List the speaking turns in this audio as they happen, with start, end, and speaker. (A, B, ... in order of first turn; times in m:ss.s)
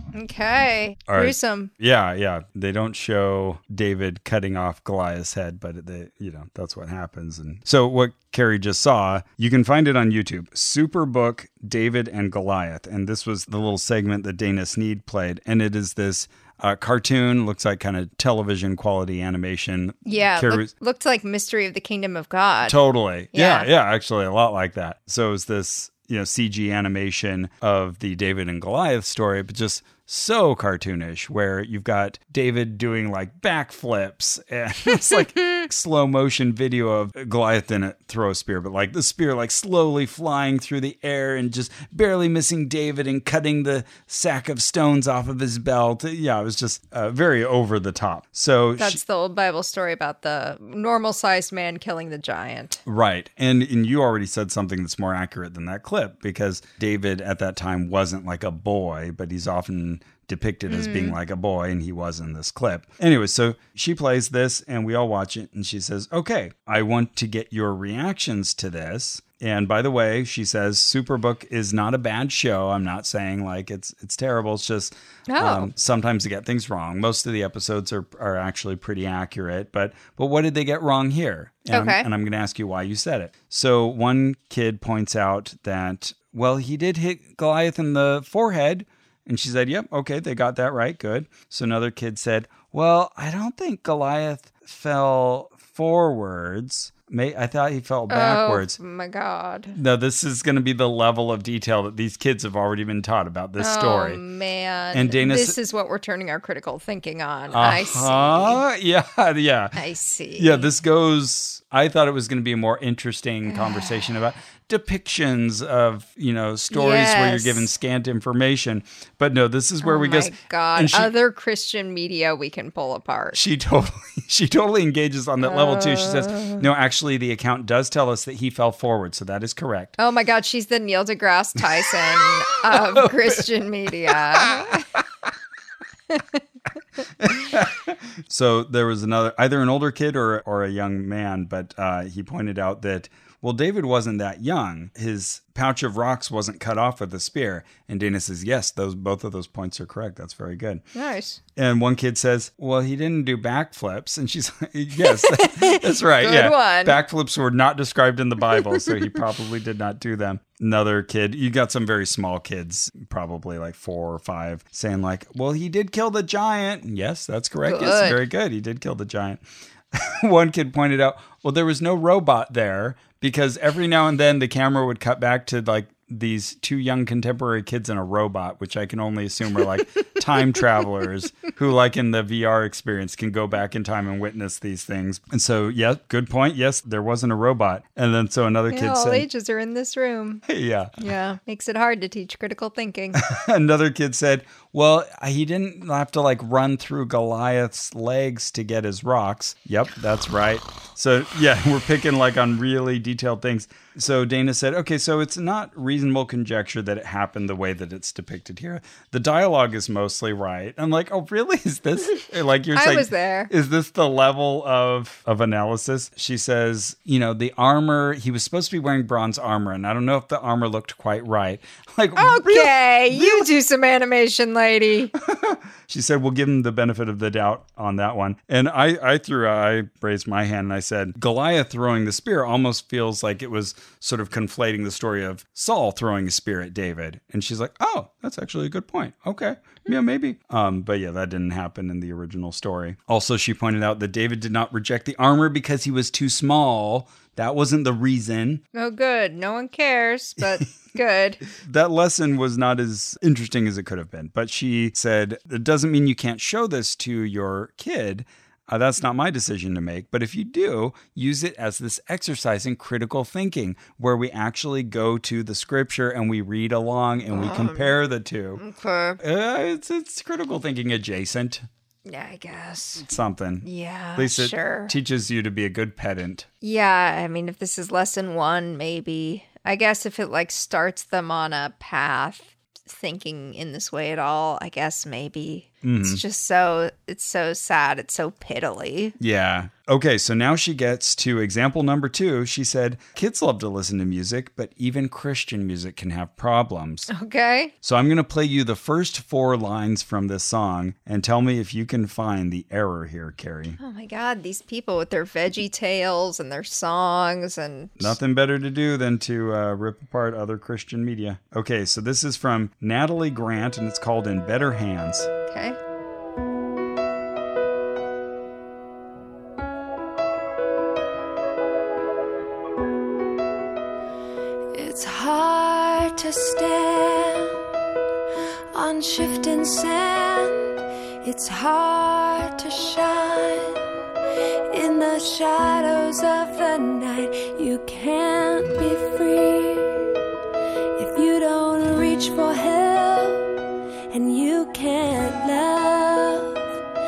0:00.1-0:01.7 A
0:01.1-0:20.7 B
0:20.0-0:22.8 A
0:22.6-0:49.0 B
0:23.3-0:23.7 A
0:48.8-0:52.8 A
0:52.8-1:38.8 B
1:00.7-1:01.2 A
1:15.3-1:15.7 A
1:21.7-1:22.1 A
1:38.1-1:39.8 A
1:39.7-1:44.2 B
1:43.6-1:48.6 A
1:44.9-1:45.6 B
1:47.5-1:49.8 B
1:49.8-1:50.7 A
1:50.4-2:01.1 B
1:53.5-1:53.8 A
1:56.7-1:57.7 A
1:59.8-2:03.4 A
2:03.3-2:10.0 B
2:05.4-2:06.6 A
2:10.0-2:14.9 A
2:12.6-2:13.4 B
2:14.1-2:14.7 B
2:16.1-2:16.4 A
2:17.2-2:30.8 B
2:30.9-2:31.4 A
2:31.6-2:49.4 B
2:35.0-2:37.0 A
2:47.6-2:48.2 A
2:49.9-3:09.2 B
3:08.7-3:10.4 A
3:10.4-3:11.0 B
3:11.0-3:13.2 A
3:13.1-3:43.5 B
3:32.7-3:33.5 A
3:42.2-3:45.1 A
3:45.2-4:08.6 B
4:08.7-4:11.4 A
4:11.5-4:28.6 B
4:27.3-4:27.9 A
4:28.6-4:29.2 A
4:29.2-4:31.7 B
4:32.0-4:33.1 A
4:33.0-4:36.5 B
4:33.6-4:34.9 A
4:36.6-4:49.2 A
4:45.8-4:46.2 B
4:49.2-4:57.1 B
4:57.1-4:57.7 A
4:57.8-5:03.8 B
5:03.8-5:08.2 A
5:08.0-5:15.3 B
5:15.5-5:15.8 A
5:24.7-5:27.6 C
5:28.7-5:33.9 C
5:34.7-5:40.1 C
5:41.0-5:46.7 C